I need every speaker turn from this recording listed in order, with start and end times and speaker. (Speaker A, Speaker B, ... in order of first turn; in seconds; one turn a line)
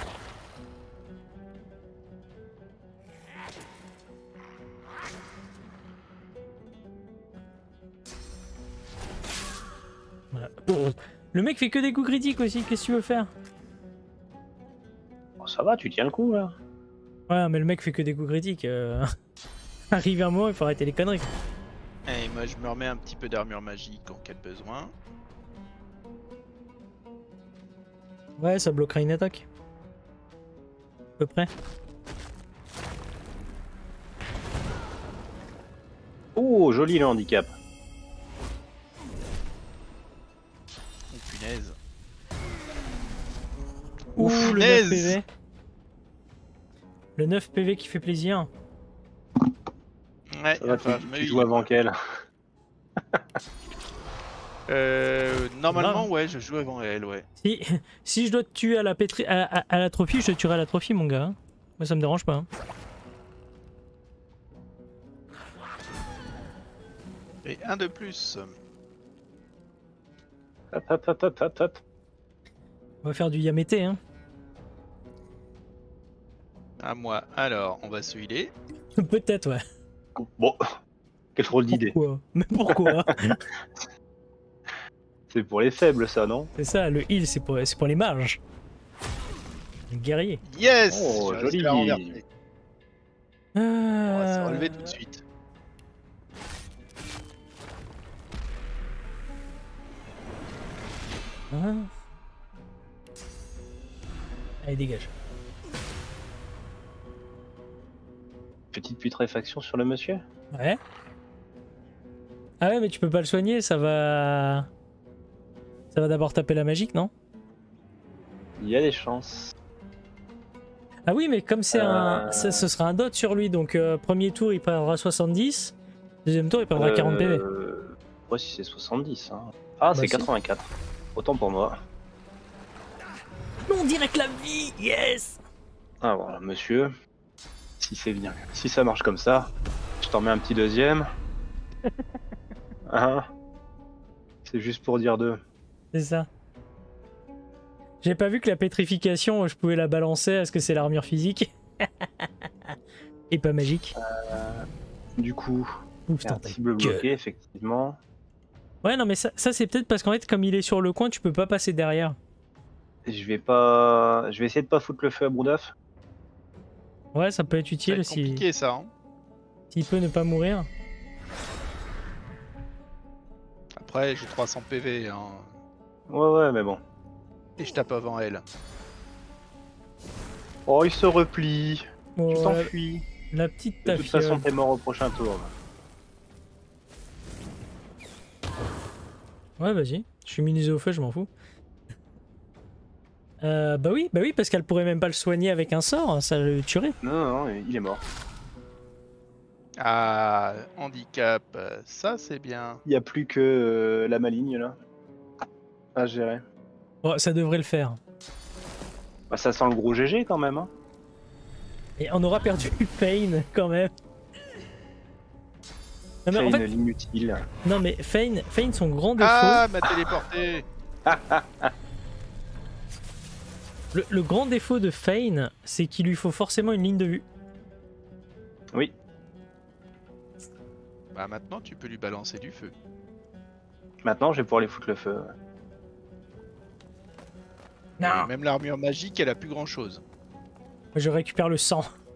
Speaker A: 10.3-13.3
Speaker B: 15.4-16.6
Speaker A: 17.3-19.1
Speaker A: 19.9-21.3
Speaker C: 22.1-24.9
Speaker A: 28.4-29.5
Speaker A: 31.2-31.5
Speaker B: 36.4-37.5
Speaker C: 41.1-41.8
Speaker A: 44.2-45.2
Speaker C: 44.2-45.2
Speaker A: 47.2-48.5
Speaker C: 50.4-51.7
Speaker B: 50.6-52.0
Speaker B: 53.0-53.4
Speaker C: 54.7-57.3
Speaker A: 55.7-56.1
Speaker A: 57.4-62.5
Speaker C: 67.4-68.5
Speaker B: 70.7-71.8
Speaker A: 73.0-74.0
Speaker C: 76.8-78.5
Speaker A: 79.0-79.6
Speaker B: 80.2-80.6
Speaker B: 81.3-82.0
Speaker A: 81.7-83.4
Speaker B: 82.7-83.0
Speaker B: 85.3-86.5
Speaker A: 86.6-88.4
Speaker A: 89.9-90.4
Speaker C: 90.5-92.2
Speaker B: 90.9-92.2
Speaker A: 93.5-94.9
Speaker C: 94.1-95.2
Speaker A: 101.5-101.9
Speaker A: 104.6-105.1
Speaker B: 108.7-110.2
Speaker A: 110.5-110.8
Speaker A: 112.6-114.7
Speaker A: 115.9-117.1
Speaker B: 118.6-119.5
Speaker A: 121.1-127.4
Speaker B: 121.7-122.7
Speaker B: 126.8-131.8
Speaker A: 129.9-130.3
Speaker A: 133.7-135.4
Speaker B: 136.0-136.9
Speaker B: 137.8-139.5
Speaker B: 140.0-141.1
Speaker B: 142.9-143.3
Speaker B: 144.4-145.4
Speaker A: 145.9-146.3
Speaker A: 148.0-152.8
Speaker A: 153.3-153.9
Speaker B: 154.0-154.7
Speaker B: 155.2-155.7
Speaker A: 156.1-157.1
Speaker B: 156.2-158.0
Speaker A: 158.8-162.2
Speaker B: 163.1-165.7
Speaker A: 167.1-168.4
Speaker C: 167.9-168.9
Speaker A: 169.7-170.7
Speaker C: 173.8-175.5
Speaker B: 176.1-176.8
Speaker C: 177.6-178.4
Speaker B: 180.7-183.1
Speaker A: 182.2-182.7
Speaker A: 183.3-184.4
Speaker B: 183.8-185.5
Speaker A: 189.6-191.3
Speaker A: 193.4-197.0
Speaker B: 197.0-198.0
Speaker C: 199.8-202.8
Speaker B: 202.9-204.8
Speaker B: 205.9-206.4
Speaker A: 207.0-208.0
Speaker B: 209.3-210.7
Speaker A: 212.0-213.9
Speaker A: 216.2-216.7
Speaker B: 216.3-217.4
Speaker A: 217.6-219.7
Speaker C: 219.2-220.7
Speaker B: 221.1-221.7
Speaker A: 223.9-227.2
Speaker C: 231.1-232.7
Speaker B: 234.0-235.3
Speaker A: 238.0-238.3
Speaker C: 238.0-240.0
Speaker A: 240.9-241.9